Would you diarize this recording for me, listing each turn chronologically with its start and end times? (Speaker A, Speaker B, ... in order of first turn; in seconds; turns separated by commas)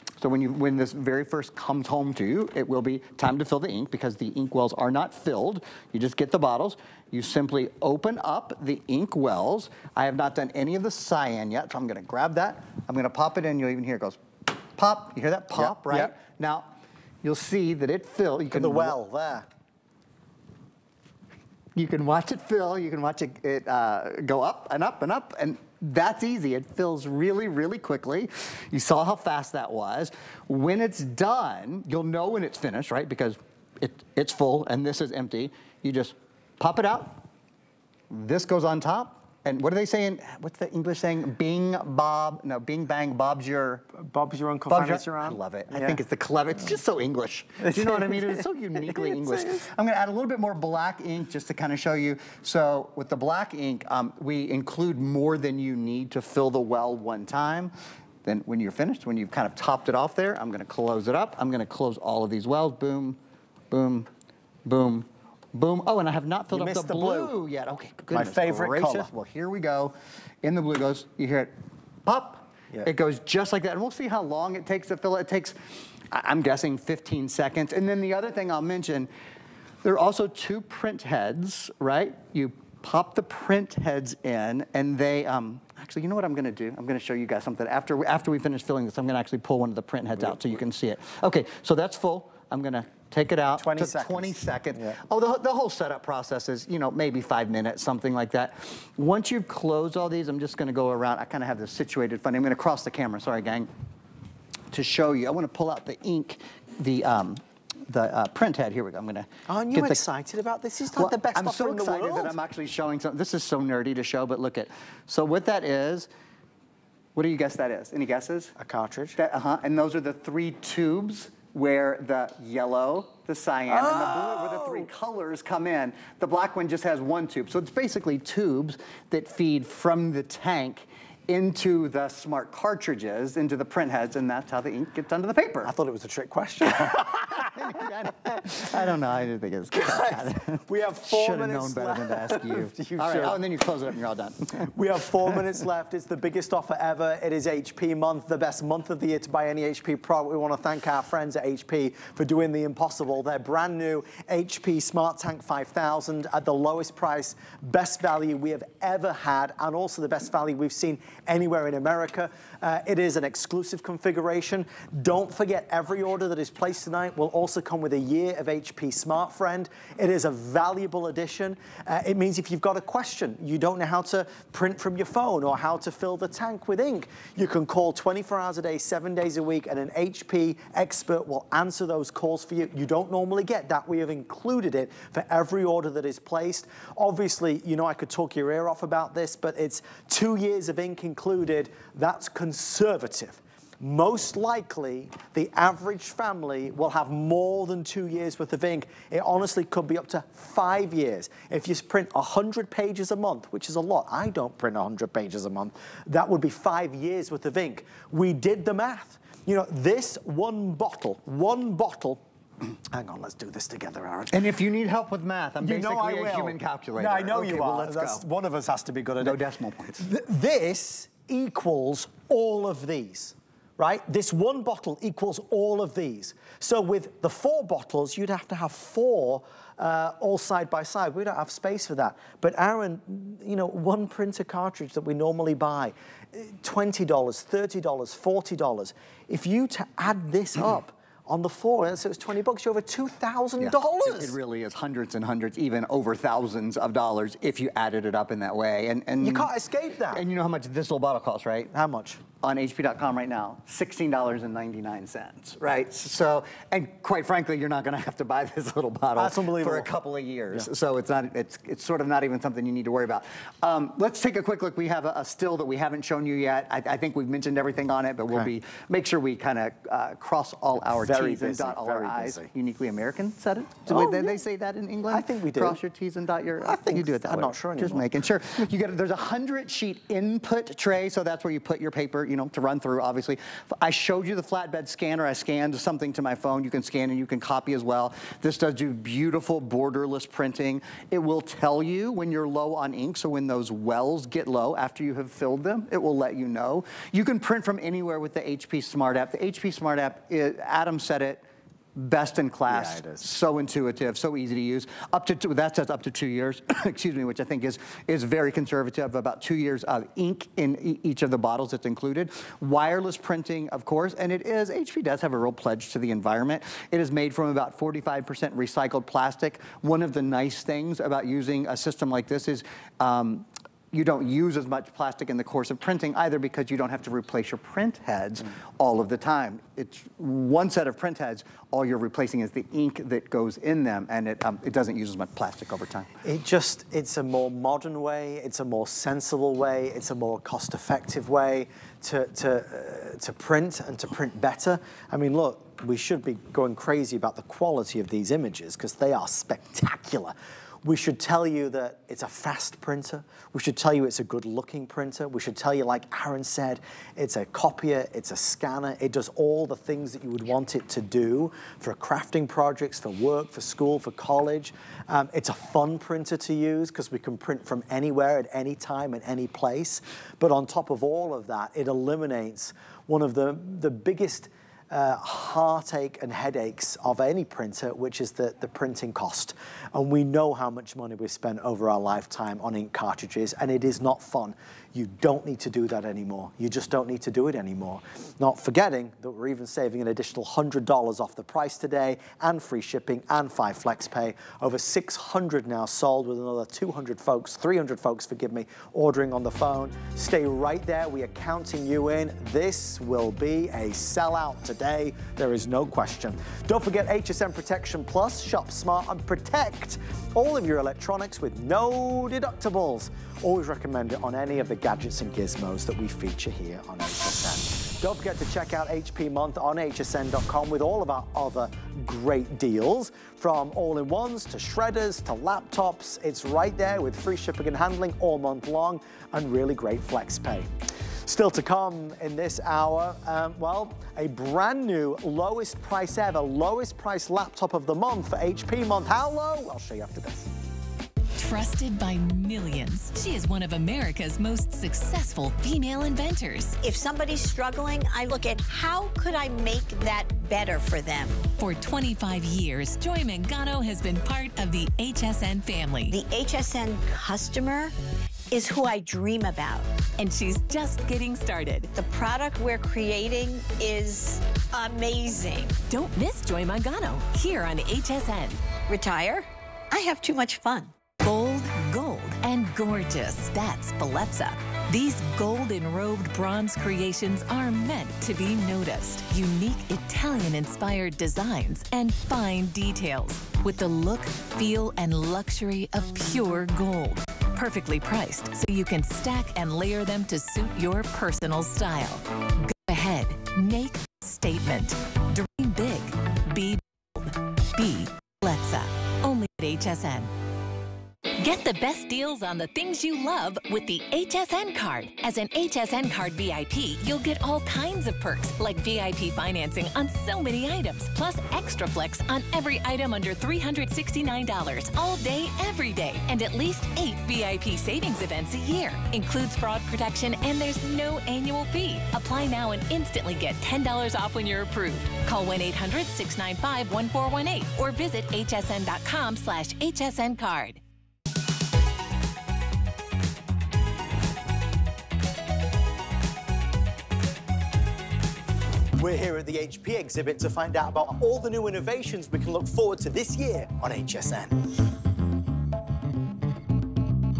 Speaker A: 0.2-16.7, Speaker B: 15.6-16.1, Speaker A: 17.2-19.0, Speaker B: 18.5-19.5, Speaker A: 21.8-37.2, Speaker A: 38.1-43.8, Speaker B: 43.9-46.0, Speaker A: 44.7-57.7, Speaker B: 47.6-49.6, Speaker A: 58.2-63.2, Speaker A: 63.7-64.1, Speaker A: 64.6-71.5, Speaker B: 66.5-67.3, Speaker B: 68.1-69.1, Speaker A: 72.0-75.5, Speaker A: 76.1-79.1, Speaker A: 79.8-103.7, Speaker B: 93.6-95.0, Speaker A: 104.7-110.0, Speaker B: 109.5-112.3, Speaker A: 110.9-116.1, Speaker A: 117.1-118.5, Speaker B: 118.6-119.2, Speaker A: 119.2-135.7, Speaker B: 123.7-124.9, Speaker B: 135.6-137.6, Speaker A: 136.8-144.7, Speaker B: 139.7-143.4, Speaker B: 144.7-212.2, Speaker B: 212.9-214.4, Speaker A: 214.3-218.2, Speaker B: 215.6-219.4, Speaker A: 219.2-220.0, Speaker B: 219.9-244.4, Speaker A: 243.6-249.5, Speaker B: 249.2-250.2, Speaker A: 250.1-251.7, Speaker B: 251.7-252.2, Speaker A: 252.4-301.4, Speaker B: 259.2-259.9, Speaker B: 270.9-272.5, Speaker B: 273.9-274.4, Speaker B: 275.1-275.8, Speaker B: 276.6-278.1, Speaker A: 301.9-336.1, Speaker B: 302.7-303.2, Speaker B: 336.2-430.7, Speaker B: 431.2-440.5, Speaker C: 441.4-446.8, Speaker D: 446.8-451.4, Speaker C: 451.6-456.1, Speaker D: 456.1-457.9, Speaker D: 458.5-459.9, Speaker C: 460.2-461.9, Speaker D: 461.9-465.8, Speaker C: 465.9-468.6, Speaker D: 468.9-470.9, Speaker C: 471.2-500.3, Speaker C: 501.4-530.8, Speaker B: 539.0-544.7